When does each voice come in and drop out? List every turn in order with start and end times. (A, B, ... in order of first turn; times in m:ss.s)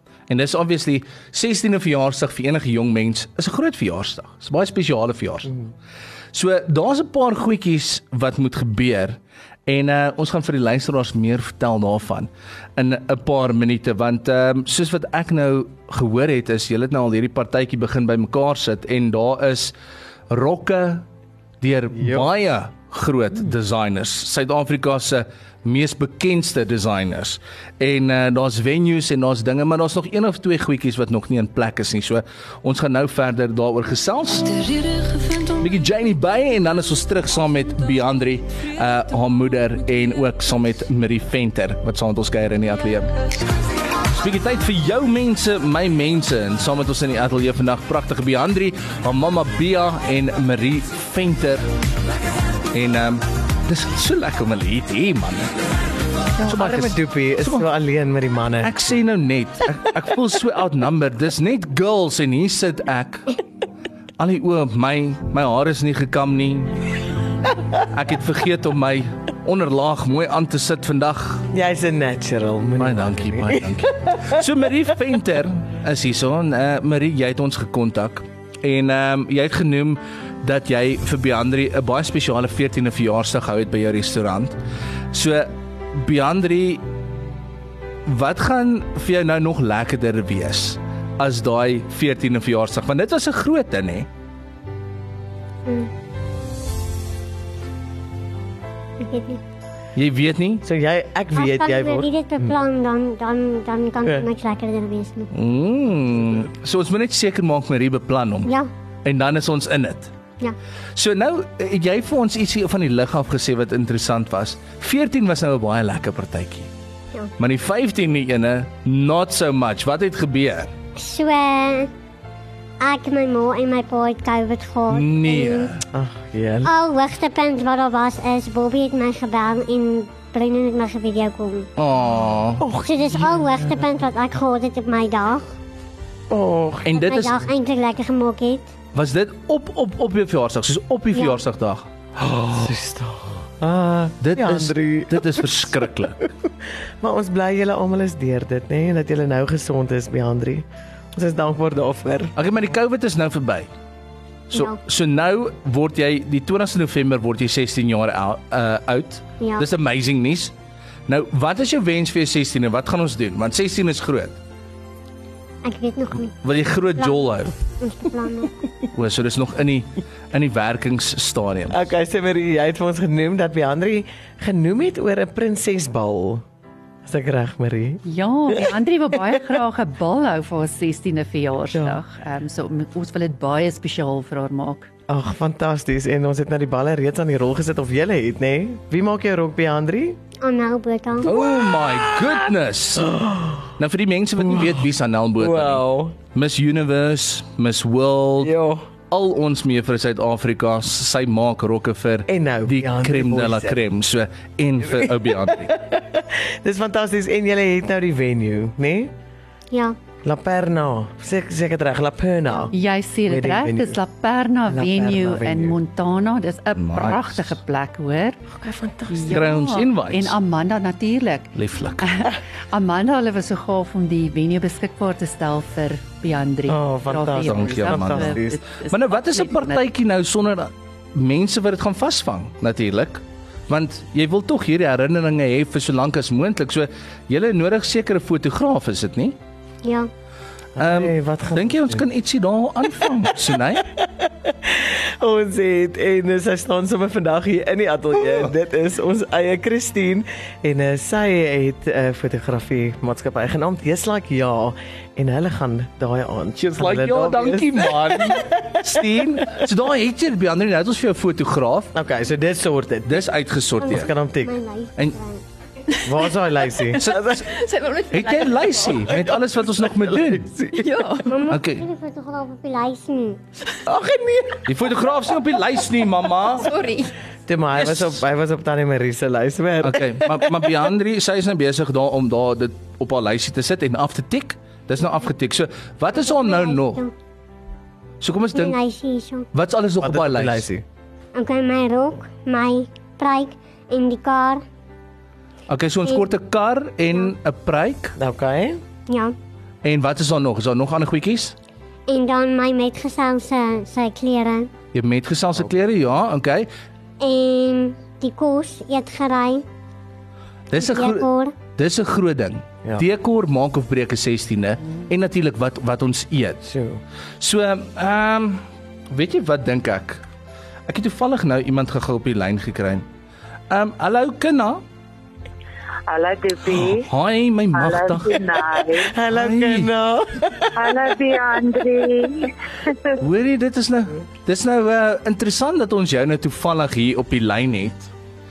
0:00.3-0:05.5 A
0:06.3-0:19.7 A
0:20.3-0:21.1 A
0:21.6-0:43.1 A
0:22.0-0:22.3 B
0:44.1-0:51.6 A
0:52.7-0:55.6 A
0:56.4-0:58.7 B
0:56.4-0:57.6 A
0:58.6-1:03.4 A
1:04.2-1:06.8 A
1:07.8-1:11.5 A
1:11.5-1:14.4 B
1:12.8-1:24.6 A
1:25.1-1:26.8 A
1:28.1-1:34.1 A
1:39.0-1:39.4 C
1:39.9-1:40.6 A
1:40.6-1:42.5 B
1:41.3-1:45.3 C
1:45.3-1:48.5 A
1:49.0-1:50.1 A
1:50.9-1:56.7 A
1:57.4-2:00.7 A
2:01.0-2:01.9 C
2:02.8-2:05.7 C
2:04.9-2:05.8 A
2:05.9-2:06.7 B
2:06.6-2:11.7 C
2:11.8-2:12.7 A
2:12.6-2:13.8 B
2:12.8-2:15.5 C
2:16.3-2:16.9 B
2:16.9-2:17.4 A
2:16.9-2:18.7 C
2:18.9-2:21.9 A
2:21.1-2:21.4 C
2:22.2-2:25.4 B
2:24.2-2:26.2 A
2:27.0-2:32.3 B
2:32.4-2:33.7 A
2:34.5-2:40.5 A
2:39.4-2:39.6 C
2:41.1-2:44.4 A
2:45.6-2:46.3 C
2:46.4-2:47.6 A
2:47.0-2:47.2 C
2:47.8-2:48.5 C
2:48.9-2:51.8 A
2:51.7-2:56.4 B
2:57.1-2:58.6 B
2:58.0-3:04.9 D
3:01.8-3:02.0 B
3:05.1-3:10.2 B
3:10.4-3:11.3 C
3:11.2-3:13.2 A
3:11.3-3:12.0 B
3:13.1-3:13.5 B
3:13.8-3:18.5 A
3:14.4-3:14.8 B
3:15.4-3:16.2 B
3:18.4-3:18.9 B
3:19.1-3:25.7 A
3:22.3-3:23.8 B
3:25.0-3:29.1 B
3:29.7-3:30.0 C
3:30.2-3:34.0 B
3:32.7-3:38.4 D
3:34.7-3:35.8 B
3:36.8-3:37.6 A
3:38.6-3:39.5 B
3:39.1-3:49.8 D
3:39.3-3:40.4 A
3:41.5-3:42.1 A
3:46.7-3:48.6 B
3:47.4-3:59.4 A
3:59.8-4:00.1 C
4:00.8-4:02.0 B
4:00.8-4:03.9 A
4:04.4-4:19.4 B
4:16.6-4:21.9 A
4:21.9-4:23.2 B
4:23.1-4:24.1 A
4:23.8-4:25.4 C
4:23.9-4:24.6 B
4:26.0-4:27.5 B
4:27.0-4:30.5 A
4:27.5-4:28.6 D
4:29.8-4:31.1 B
4:30.8-4:31.3 D
4:31.2-4:33.4 C
4:31.5-4:31.9 A
4:33.8-4:34.7 B
4:34.6-4:36.7 A
4:36.6-4:37.1 D
4:37.4-4:40.4 B
4:37.8-4:38.2 A
4:39.8-4:47.1 A
4:46.2-4:47.1 C
4:48.2-4:48.8 A
4:48.6-4:49.5 C
4:49.5-4:50.6 A
4:50.0-4:50.8 B
4:51.3-4:54.6 C
4:55.7-4:58.1 A
4:58.2-4:58.8 B
4:59.1-4:59.3 C
4:59.8-5:01.6 A
5:02.1-5:04.7 C
5:04.9-5:06.7 A
5:07.2-5:09.6 C
5:10.7-5:16.6 A
5:10.8-5:11.5 C
5:16.6-5:17.0 B
5:17.4-5:20.2 A
5:20.9-5:23.0 A
5:23.7-5:24.8 A
5:26.1-5:27.1 E
5:26.7-5:29.9 A
5:27.7-5:29.1 E
5:29.1-5:31.0 B
5:30.8-5:33.0 E
5:33.2-5:38.1 A